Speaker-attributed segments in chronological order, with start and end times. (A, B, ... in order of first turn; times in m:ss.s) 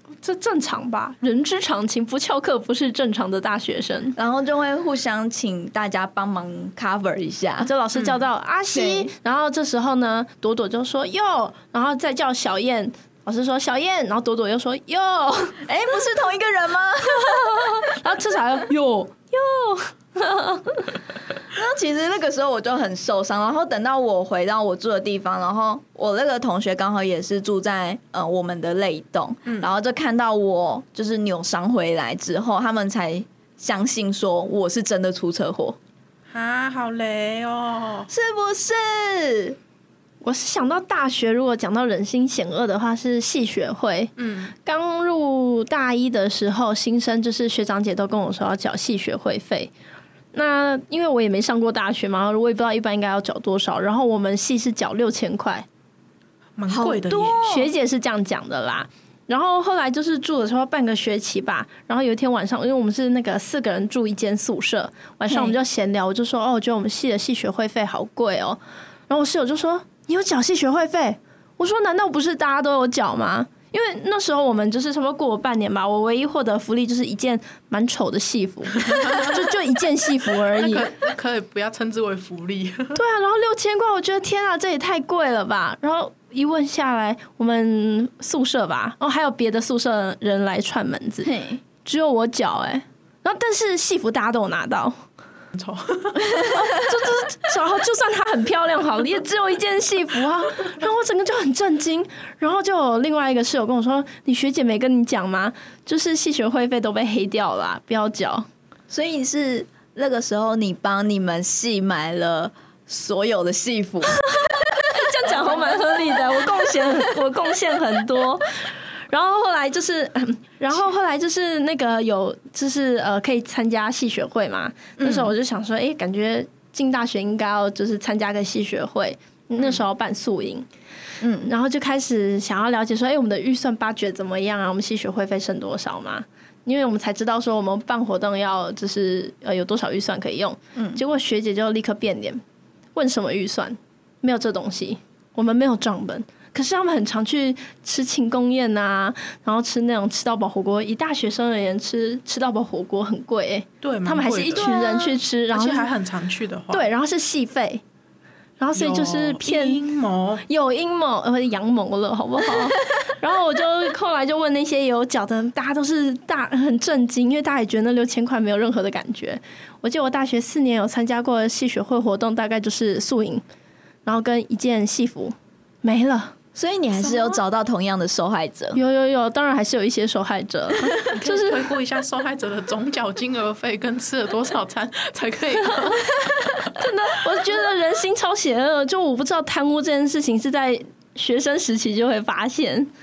0:00.2-0:04.2 A
0:04.2-0:07.7 B
0:07.6-0:15.6 A
0:08.7-0:09.1 B
0:15.6-0:17.9 B
0:17.5-0:21.0 A
0:21.5-0:35.8 B
0:36.3-0:38.1 C
0:38.1-0:39.6 B
0:40.2-0:44.1 A
0:44.2-0:44.5 C
0:44.6-0:49.7 A
0:50.3-0:55.6 A
0:56.6-0:57.4 C
0:56.7-0:57.7 B
0:57.4-1:20.9 A
1:05.3-1:05.6 B
1:18.9-1:19.3 C
1:20.4-1:23.0 C
1:22.9-1:31.3 A
1:31.2-1:31.6 B
1:31.8-1:35.0 A
1:35.5-1:36.2 C
1:36.4-1:48.5 A
1:48.9-1:56.5 B
1:54.3-2:10.6 A
2:05.0-2:05.3 B
2:11.2-2:11.5 B
2:11.4-2:22.4 A
2:20.7-2:21.0 B
2:22.9-2:35.9 A
2:33.8-2:34.7 C
2:34.6-2:35.2 B
2:35.5-2:36.9 C
2:36.7-2:37.8 A
2:38.6-2:39.8 A
2:38.7-2:40.4 C
2:40.5-2:53.4 A
2:54.0-2:56.3 A
2:56.5-2:58.8 B
2:58.7-3:01.6 A
3:01.1-3:06.7 C
3:06.7-3:12.9 A